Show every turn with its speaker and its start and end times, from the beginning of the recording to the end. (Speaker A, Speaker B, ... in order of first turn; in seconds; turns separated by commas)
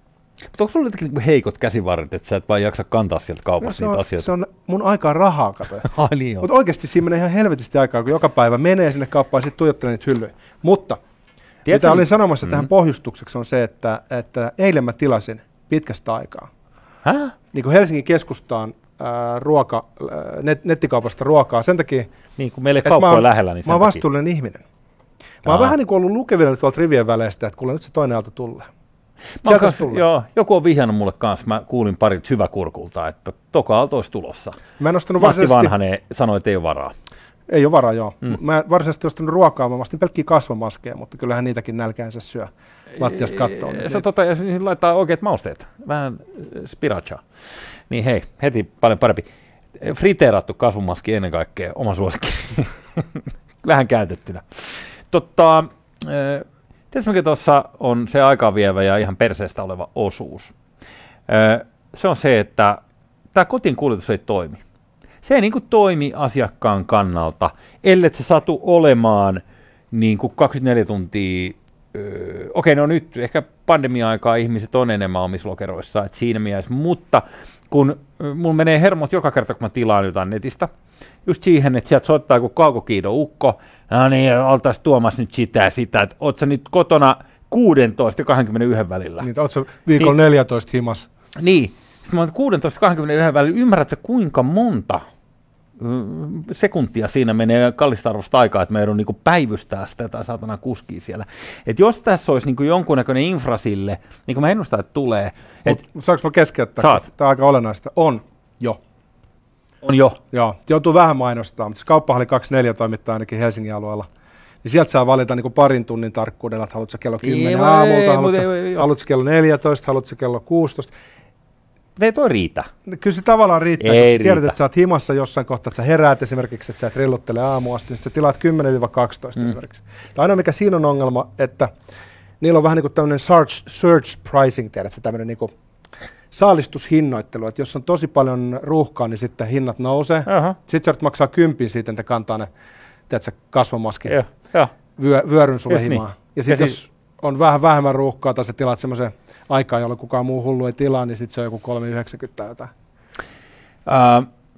Speaker A: 0.5-4.3, Speaker B: 3.6-11.0, Speaker A: 5.8-6.5, Speaker A: 11.7-12.7, Speaker B: 11.7-16.5, Speaker A: 17.0-17.3, Speaker B: 17.5-22.1, Speaker A: 22.4-24.0, Speaker B: 22.8-24.6, Speaker B: 25.4-28.7, Speaker A: 25.5-25.7, Speaker A: 29.4-34.6, Speaker B: 29.4-30.1, Speaker B: 34.8-35.7, Speaker A: 35.2-36.9, Speaker B: 37.5-44.0, Speaker A: 43.0-47.3, Speaker A: 47.9-60.5, Speaker A: 61.3-62.8, Speaker A: 63.3-64.6, Speaker A: 65.2-80.7, Speaker A: 81.2-89.3, Speaker B: 89.2-91.1, Speaker A: 91.4-95.0, Speaker A: 95.8-105.8, Speaker B: 105.7-108.8, Speaker A: 106.8-107.0, Speaker A: 109.8-110.2, Speaker B: 110.3-114.1, Speaker B: 114.6-120.9, Speaker A: 117.2-118.9, Speaker A: 122.0-122.7, Speaker B: 122.9-131.7, Speaker A: 123.8-124.5, Speaker B: 132.4-135.5, Speaker B: 136.3-142.5, Speaker A: 140.3-140.6, Speaker B: 143.1-144.2, Speaker A: 144.1-144.7, Speaker B: 145.0-152.7, Speaker A: 145.7-146.8, Speaker A: 153.9-154.3